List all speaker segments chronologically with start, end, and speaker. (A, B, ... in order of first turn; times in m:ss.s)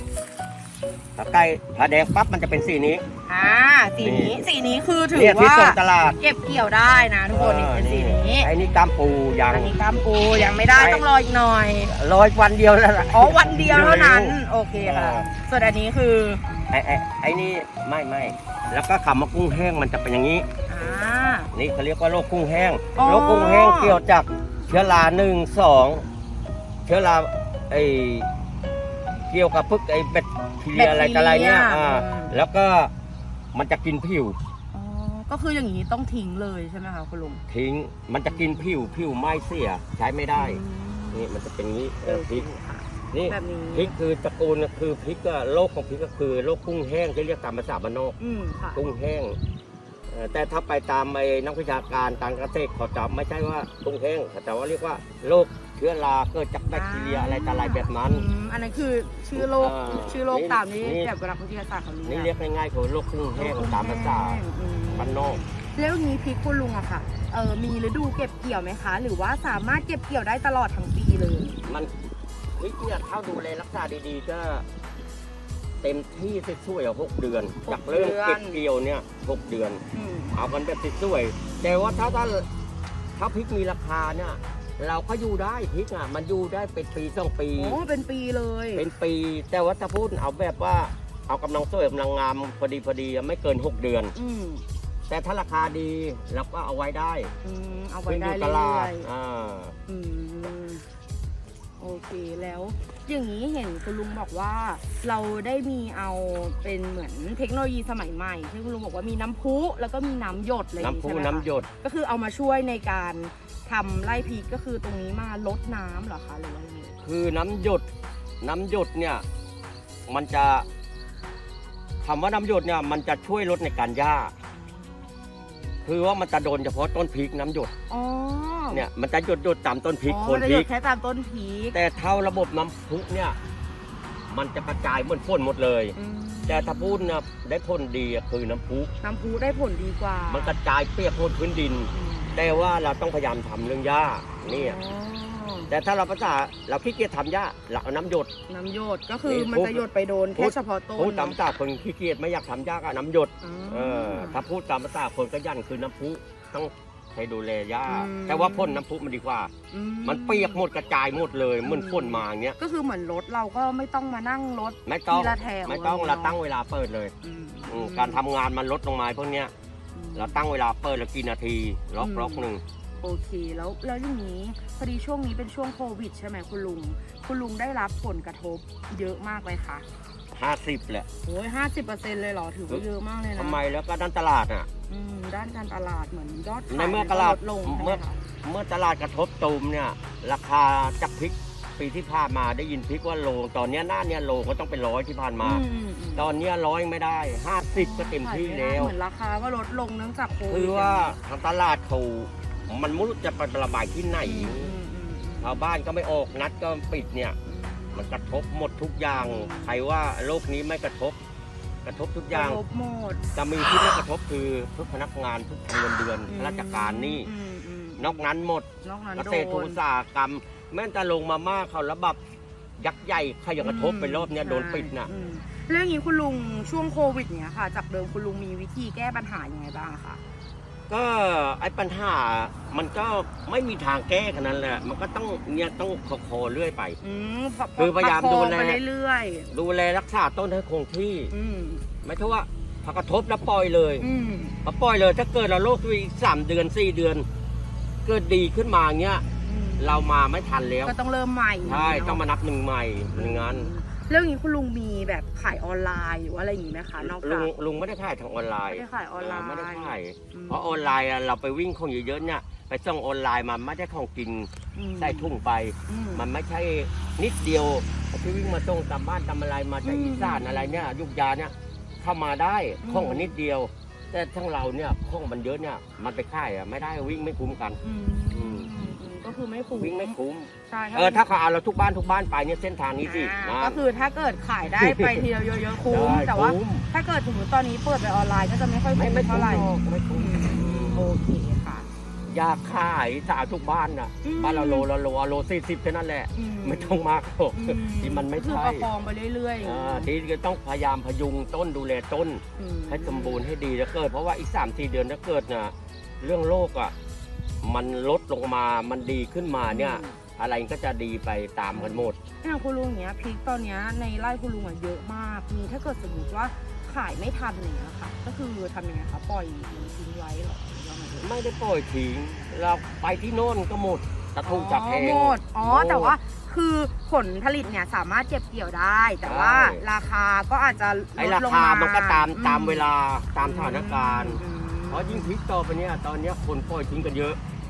0:01.2-0:03.0 A
0:03.3-0:08.5 B
0:04.0-0:04.4 A
0:05.1-0:06.2 A
0:07.3-0:09.7 A
0:09.5-0:12.0 B
0:10.7-0:11.1 A
0:11.9-0:15.3 A
0:13.1-0:16.4 B
0:16.7-0:20.5 A
0:20.7-0:21.5 B
0:21.5-0:26.1 A
0:23.0-0:24.0 B
0:26.9-0:28.3 A
0:29.3-0:32.9 A
0:30.7-0:32.4 B
0:33.5-0:34.4 A
0:34.7-0:37.4 B
0:37.5-0:40.6 A
0:38.3-0:38.6 B
0:40.4-0:41.3 B
0:41.1-0:42.5 A
0:42.0-0:44.0 B
0:43.1-0:48.2 A
0:48.2-0:48.8 B
0:48.8-0:49.4 A
0:50.1-0:58.2 A
0:56.7-1:02.3 B
0:59.3-1:01.1 A
1:02.0-1:05.4 A
1:03.4-1:11.6 B
1:11.6-1:11.9 A
1:12.6-1:14.7 A
1:15.8-1:19.8 A
1:17.6-1:18.6 B
1:19.9-1:20.4 B
1:20.3-1:22.5 A
1:21.6-1:22.4 B
1:23.2-1:27.8 A
1:27.6-1:28.8 B
1:28.8-1:34.2 A
1:34.1-1:34.6 B
1:35.1-1:37.3 A
1:37.4-1:39.1 B
1:38.1-1:39.8 A
1:39.9-1:40.8 B
1:41.8-1:57.0 B
1:50.8-1:51.7 A
1:57.0-1:57.9 A
1:58.4-1:59.2 A
2:00.1-2:00.7 A
2:02.0-2:04.3 A
2:05.8-2:07.7 A
2:07.9-2:08.8 B
2:08.7-2:10.7 A
2:10.1-2:11.8 B
2:11.7-2:13.4 A
2:14.3-2:16.0 A
2:16.0-2:17.2 B
2:16.5-2:18.9 A
2:19.0-2:20.6 B
2:20.3-2:24.8 A
2:21.9-2:22.4 B
2:24.4-2:25.7 B
2:25.7-2:28.3 A
2:28.5-2:31.4 B
2:29.2-2:39.5 A
2:33.4-2:34.4 B
2:37.9-2:38.8 B
2:39.7-2:40.6 B
2:40.0-2:42.6 A
2:41.6-2:46.4 B
2:44.8-2:47.1 A
2:47.2-2:48.2 B
2:47.7-2:49.5 A
2:49.9-2:50.4 B
2:50.2-2:52.6 A
2:52.0-2:52.5 B
2:53.0-2:59.8 B
3:00.3-3:01.1 A
3:01.2-3:03.6 B
3:02.7-3:04.7 A
3:04.9-3:08.2 B
3:06.7-3:15.6 A
3:15.4-3:16.3 B
3:16.2-3:19.0 A
3:17.7-3:21.1 B
3:20.5-3:24.7 A
3:24.2-3:25.6 B
3:25.4-3:27.4 A
3:27.5-3:28.2 B
3:27.9-3:31.2 A
3:29.1-3:29.8 B
3:31.8-3:32.6 A
3:32.3-3:33.2 B
3:33.3-3:37.3 A
3:36.3-3:38.2 B
3:38.0-3:42.2 A
3:38.8-3:39.8 B
3:42.8-3:45.1 A
3:43.6-3:50.2 B
3:50.9-3:57.0 A
3:57.0-3:59.5 B
3:57.8-3:58.8 A
3:59.5-4:01.3 A
4:01.3-4:01.8 B
4:02.0-4:04.1 A
4:04.0-4:04.6 B
4:04.6-4:07.3 A
4:08.0-4:09.3 A
4:09.4-4:10.1 B
4:09.8-4:10.9 A
4:10.8-4:12.2 B
4:11.6-4:13.7 A
4:13.1-4:17.5 B
4:17.0-4:37.8 A
4:18.7-4:20.9 B
4:24.8-4:25.4 B
4:25.9-4:26.2 B
4:29.8-4:30.9 B
4:32.8-4:33.3 B
4:37.8-4:40.2 B
4:38.3-4:38.7 A
4:39.8-4:43.8 A
4:40.7-4:41.2 B
4:43.0-4:51.9 B
4:44.8-4:46.9 A
4:49.0-4:51.1 A
4:52.3-4:58.9 A
4:54.2-4:54.9 B
4:56.3-4:57.0 B
4:57.5-5:00.1 B
4:59.6-5:06.9 A
5:02.6-5:03.4 B
5:07.6-5:12.2 A
5:09.7-5:10.2 B
5:11.7-5:21.3 B
5:21.2-5:26.2 A
5:24.4-5:35.3 B
5:29.2-5:29.8 A
5:31.2-5:37.4 A